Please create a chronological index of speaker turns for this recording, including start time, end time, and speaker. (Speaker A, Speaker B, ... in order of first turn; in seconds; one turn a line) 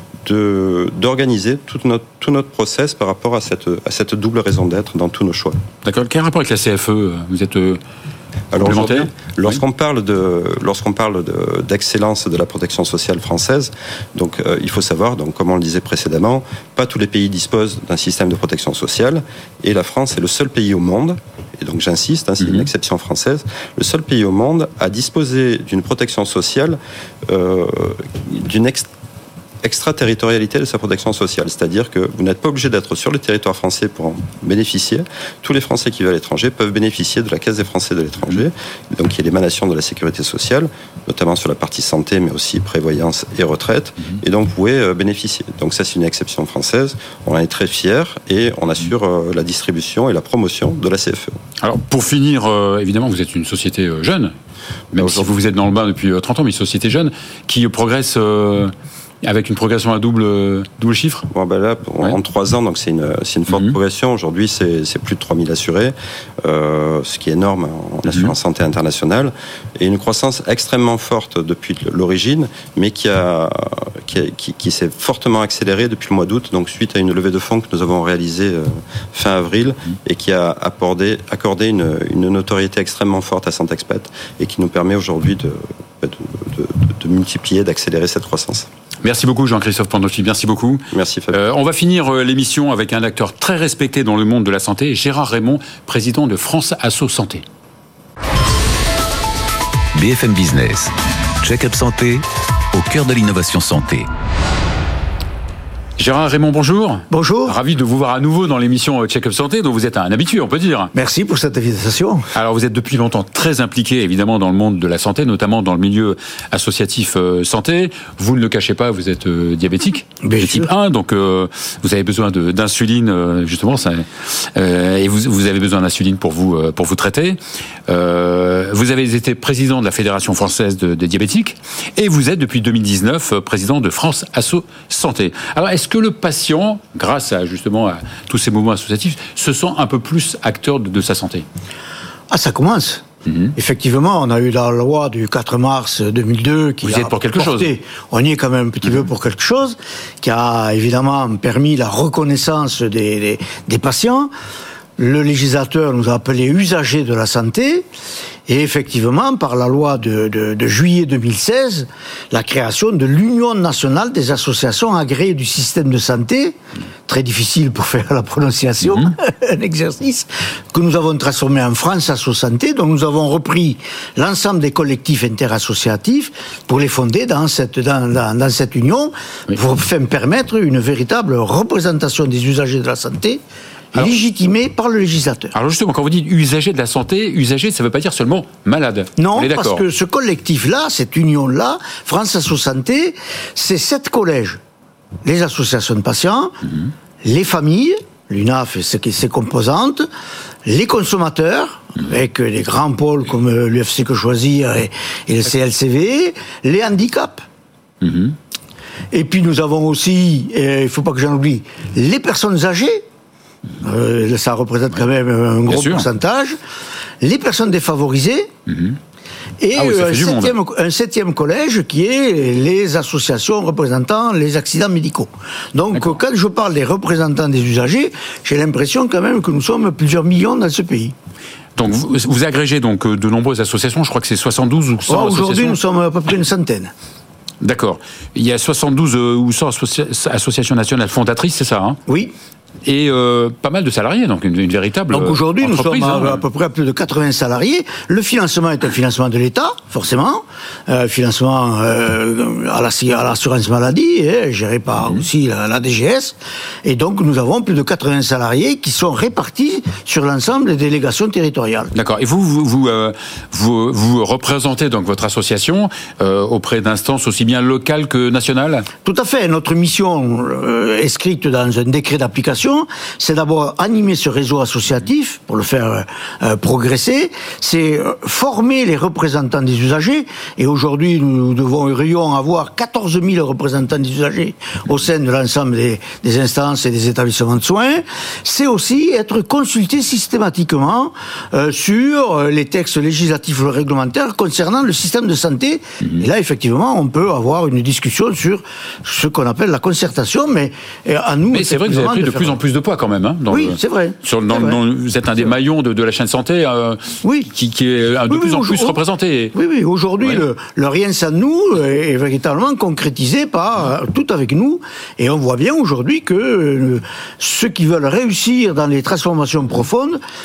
Speaker A: 0.2-5.6
Speaker B: 5.8-7.8
Speaker A: 8.5-28.9
Speaker B: 8.6-9.6
Speaker B: 22.4-22.7
Speaker A: 29.6-51.4
Speaker B: 51.6-54.3
Speaker B: 54.9-58.7
Speaker A: 55.0-55.3
Speaker B: 59.2-61.3
Speaker A: 61.3-88.7
Speaker B: 89.0-97.4
Speaker A: 90.9-91.4
Speaker C: 100.0-104.1
Speaker B: 106.0-110.9
Speaker D: 107.1-107.5
Speaker D: 110.9-112.3
Speaker B: 112.3-141.5
Speaker D: 120.2-120.7
Speaker D: 142.3-143.0
Speaker B: 143.3-143.5
Speaker D: 143.6-154.3
Speaker B: 146.8-147.7
Speaker D: 155.0-157.9
Speaker D: 158.5-183.4
Speaker D: 183.9-185.5
Speaker B: 185.5-189.8
Speaker D: 189.2-194.6
Speaker D: 195.2-196.6
Speaker D: 197.2-200.1
Speaker D: 200.7-207.4
Speaker B: 208.0-208.4
Speaker D: 209.1-213.0
Speaker D: 213.8-216.6
Speaker B: 215.7-216.1
Speaker D: 217.2-218.5
Speaker B: 218.7-219.0
Speaker D: 219.6-231.1
Speaker B: 219.7-220.6
Speaker B: 225.9-226.2
Speaker B: 231.8-235.8
Speaker D: 235.1-236.9
Speaker B: 237.6-242.0
Speaker D: 242.1-242.3
Speaker B: 242.8-246.4
Speaker D: 245.1-261.9
Speaker B: 255.0-255.2
Speaker B: 261.9-268.9
Speaker D: 269.0-302.6
Speaker B: 301.5-309.5
Speaker D: 303.5-304.8
Speaker D: 307.2-307.5
Speaker D: 308.3-309.0
Speaker D: 309.5-320.2